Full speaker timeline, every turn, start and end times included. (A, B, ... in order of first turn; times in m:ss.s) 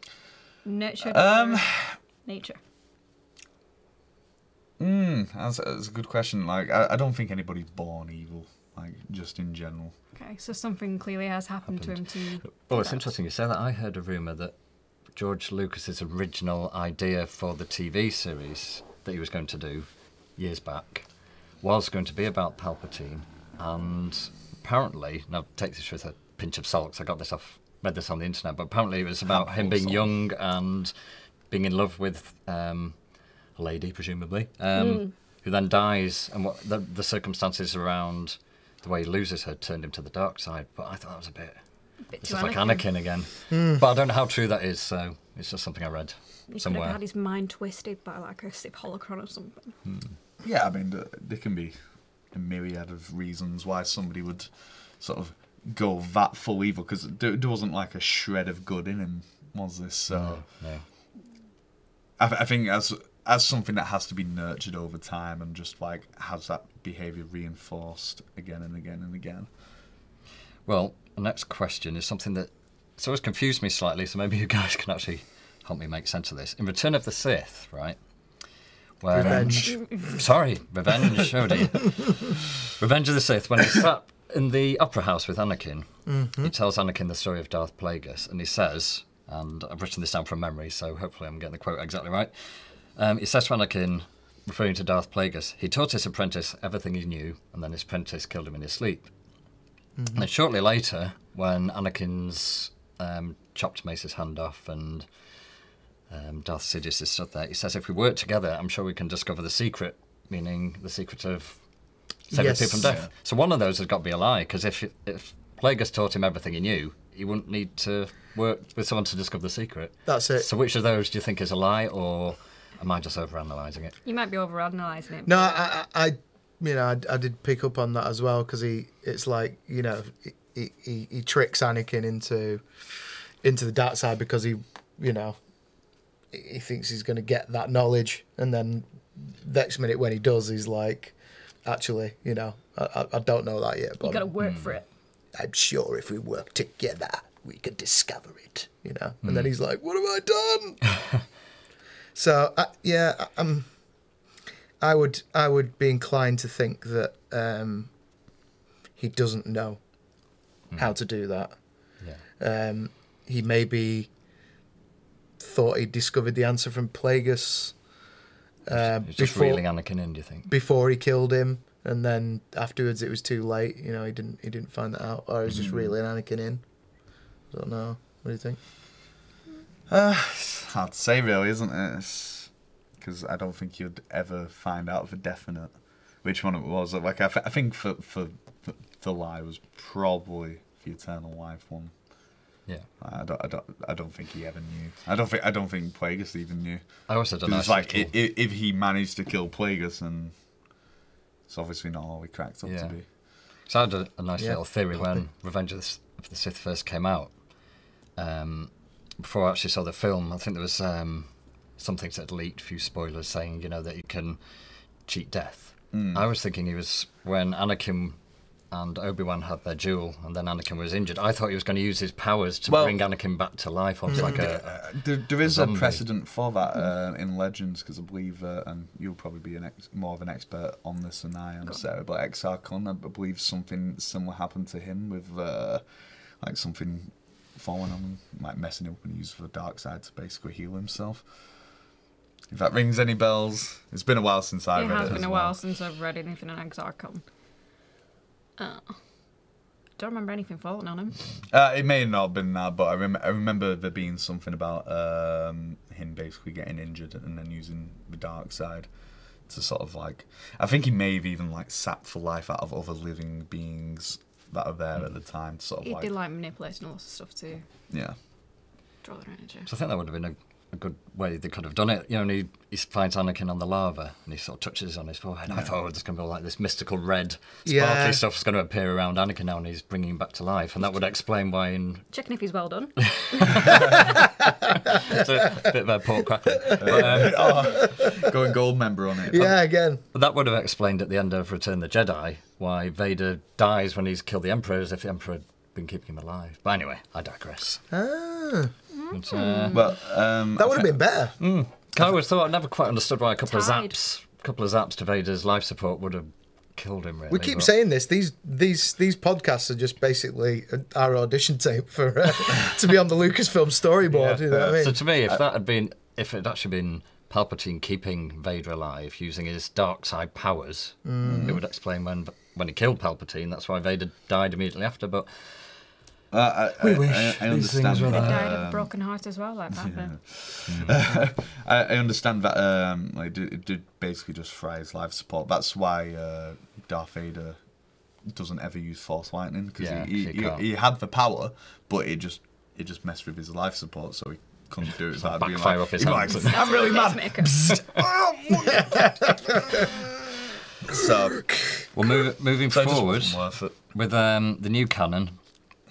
0:00.6-0:02.6 A
0:01.0-0:02.0 B
0:04.8-0:10.0 B
0:10.1-0:13.1 A
0:11.7-0:14.6 C
0:15.1-0:41.6 C
0:29.3-0:30.1 B
0:34.8-0:35.1 A
0:42.1-0:42.9 A
0:42.2-0:47.0 C
0:43.5-0:43.8 D
0:46.5-0:49.8 A
0:49.8-0:50.1 C
0:50.4-1:00.6 B
1:00.1-1:00.9 C
1:02.2-1:09.5 B
1:10.6-1:18.0 C
1:19.0-1:39.1 C
1:19.1-1:20.0 D
1:19.2-1:19.6 B
1:19.7-1:20.1 A
1:26.1-1:26.5 D
1:40.0-1:40.3 D
1:40.1-1:45.1 C
1:46.1-1:51.7 C
1:52.3-2:04.0 C
1:52.3-1:53.0 D
1:52.8-1:53.1 B
2:00.0-2:00.5 D
2:04.0-2:05.7 A
2:05.2-2:12.6 D
2:13.4-2:15.4 D
2:16.3-2:24.3 D
2:24.0-2:24.9 A
2:24.4-2:24.7 C
2:25.3-2:30.9 D
2:29.2-2:29.5 C
2:32.1-2:34.2 D
2:34.8-2:37.9 D
2:39.0-2:39.8 D
2:40.7-2:41.0 C
2:40.7-2:44.1 D
2:45.4-2:47.9 D
2:48.7-2:49.9 D
2:48.7-2:50.5 C
2:50.4-2:56.7 D
2:55.5-2:55.9 B
2:57.4-2:59.0 D
2:59.9-3:20.8 B
3:17.1-3:18.1 C
3:21.5-3:23.1 B
3:22.6-3:27.4 C
3:24.4-3:25.2 D
3:28.2-3:34.4 C
3:35.0-3:38.2 C
3:35.9-3:36.2 B
3:38.7-3:46.1 C
3:42.7-3:43.0 B
3:44.1-4:01.7 B
3:44.1-3:44.5 D
4:02.5-4:05.6 B
4:04.7-4:07.2 A
4:08.6-4:09.0 A
4:10.0-4:11.3 A
4:11.5-4:26.1 B
4:25.8-4:27.6 A
4:27.9-4:28.2 B
4:29.0-4:29.7 A
4:29.7-4:42.1 C
4:37.6-4:38.2 D
4:42.1-4:43.8 A
4:43.0-4:43.8 C
4:45.0-4:47.6 C
4:46.7-4:47.8 D
4:46.8-4:49.5 B
4:49.3-4:50.0 D
4:50.1-4:57.8 C
4:57.9-4:58.7 D
4:58.9-4:59.9 A
4:59.1-4:59.8 C
4:59.7-5:01.0 B
5:00.6-5:01.4 D
5:01.4-5:07.7 C
5:03.5-5:04.0 A
5:07.3-5:15.0 D
5:14.1-5:25.7 C
5:14.5-5:14.8 B
5:21.0-5:21.6 D
5:21.2-5:21.6 B
5:26.3-5:28.9 B
5:26.8-5:28.4 D
5:28.1-5:30.2 A
5:29.7-5:50.0 B
5:30.7-5:31.0 C
5:39.8-5:40.6 C
5:45.1-5:46.8 C
5:46.0-5:47.6 A
5:50.8-5:51.9 B
5:51.9-5:55.4 C
5:52.7-5:53.7 B